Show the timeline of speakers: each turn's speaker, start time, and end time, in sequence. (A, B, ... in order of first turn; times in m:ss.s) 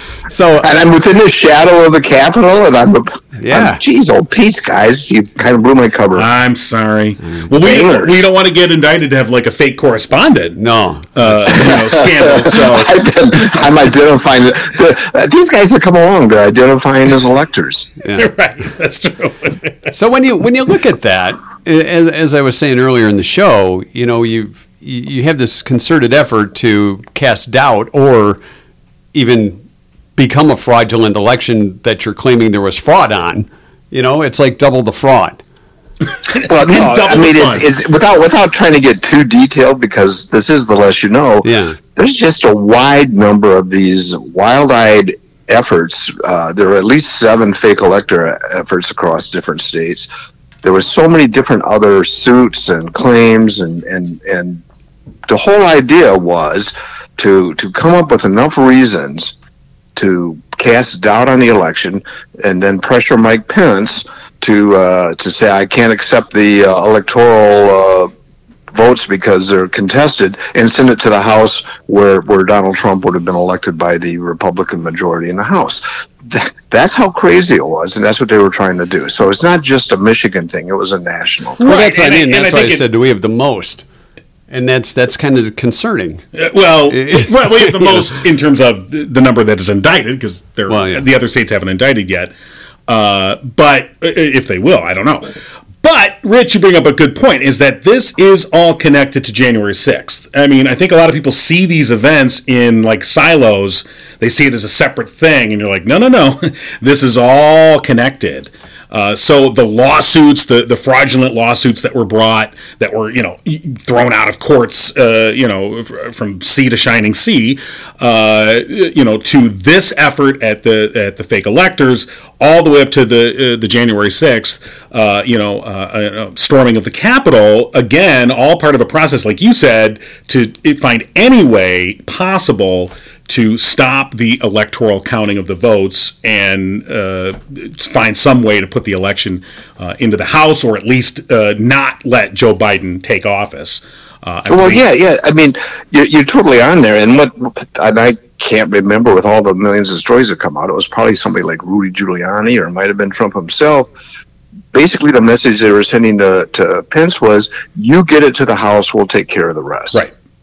0:00.3-0:00.7 A
0:00.6-0:06.2 B
0:03.4-0:03.8 A
0:06.1-0:10.6 C
0:07.5-0:08.3 B
0:10.6-0:11.5 A
0:11.1-0:13.6 C
0:11.5-0:17.9 B
0:18.1-0:19.9 C
0:19.9-0:28.4 A
0:29.1-0:29.6 A
0:30.2-0:35.4 A
0:36.3-0:37.7 C
0:36.4-0:50.1 B
0:41.4-0:41.8 A
0:50.6-0:54.6 B
0:55.3-0:59.3 B
1:00.0-1:08.1 B
1:08.7-1:21.6 B
1:21.6-1:22.8 C
1:21.6-1:23.8 A
1:24.5-1:26.2 A
1:26.3-1:32.3 C
1:26.9-1:28.1 A
1:30.7-1:31.1 A
1:32.9-1:35.3 C
1:35.8-2:24.8 C
2:24.5-2:33.9 B
2:34.7-2:40.0 B